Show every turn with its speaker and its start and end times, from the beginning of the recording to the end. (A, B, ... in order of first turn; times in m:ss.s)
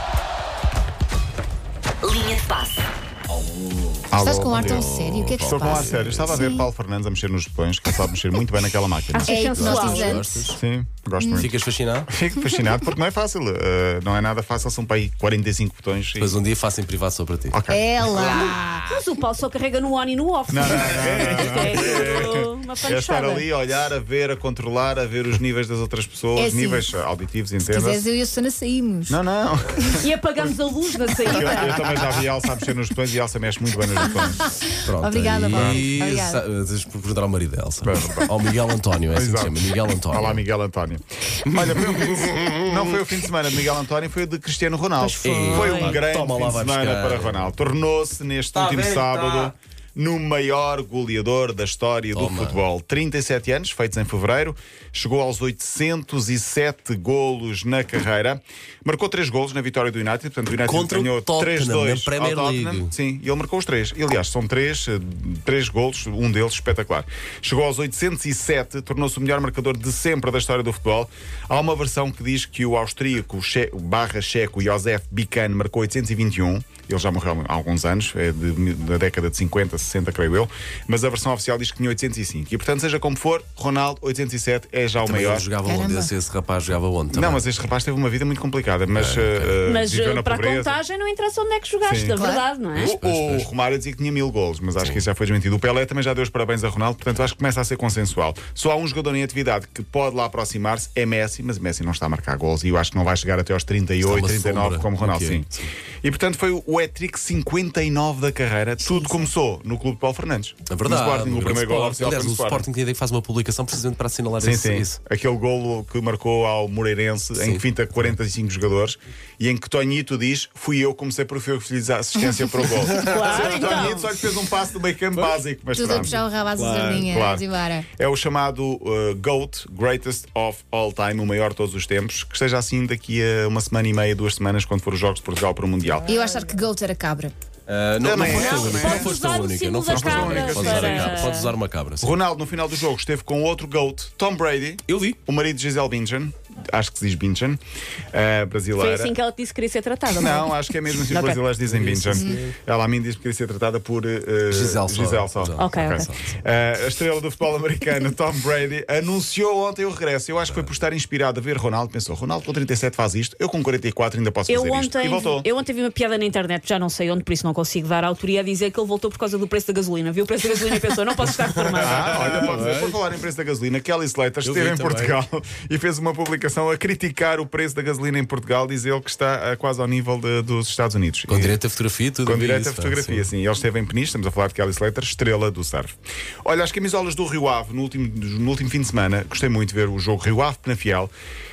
0:03.3-0:06.5 A
0:04.1-0:09.4 B
0:04.1-0:06.7 C
0:09.1-0:10.2 D
0:09.3-0:10.4 C
0:09.4-0:10.6 A
0:10.5-0:11.5 B
0:11.2-0:11.5 C
0:11.4-0:12.1 A
0:12.1-0:16.4 B
0:16.2-0:17.6 A
0:17.5-0:18.5 B
0:17.7-0:19.0 C
0:18.9-0:23.4 D
0:20.5-0:28.0 B
0:21.3-0:21.7 A
0:26.3-0:26.9 C
0:27.6-0:29.2 C
0:29.1-0:30.1 B
0:30.0-0:31.9 D
0:31.2-0:34.6 B
0:34.0-0:36.4 C
0:34.8-0:40.4 A
0:35.5-0:35.8 B
0:37.8-0:38.3 B
0:39.1-1:25.5 B
0:41.4-0:43.1 A
0:45.0-0:47.5 A
0:45.3-0:45.6 C
0:45.5-0:46.0 D
0:48.6-0:49.4 A
0:52.1-0:52.6 A
1:00.6-1:03.0 A
1:25.0-1:27.4 A
1:25.6-1:26.1 C
1:27.1-1:30.8 B
1:28.9-1:29.6 A
1:29.7-1:32.9 D
1:31.8-1:32.2 B
1:32.1-1:32.4 C
1:32.7-1:33.5 A
1:32.8-1:52.7 B
1:34.8-1:35.0 A
1:44.0-1:45.6 A
1:48.8-1:49.2 C
1:50.7-1:55.0 A
1:54.4-2:16.1 B
1:57.4-1:58.1 A
2:03.0-2:04.0 D
2:03.1-2:03.9 A
2:05.7-2:07.9 C
2:05.9-2:07.0 A
2:16.0-2:17.3 C
2:17.7-2:22.2 A
2:18.0-2:19.1 B
2:18.2-2:21.5 D
2:19.9-2:21.3 B
2:22.0-2:27.6 B
2:24.9-2:25.2 A
2:28.1-2:29.1 B
2:28.8-2:31.4 D
2:30.1-2:45.5 B
2:31.6-2:32.5 A
2:34.5-2:36.4 A
2:35.6-2:36.0 D
2:40.4-2:40.7 A
2:44.5-2:52.5 D
2:51.6-2:53.0 A
2:51.8-3:01.6 B
2:54.4-2:55.2 A
3:01.3-3:03.3 A
3:02.2-3:11.1 B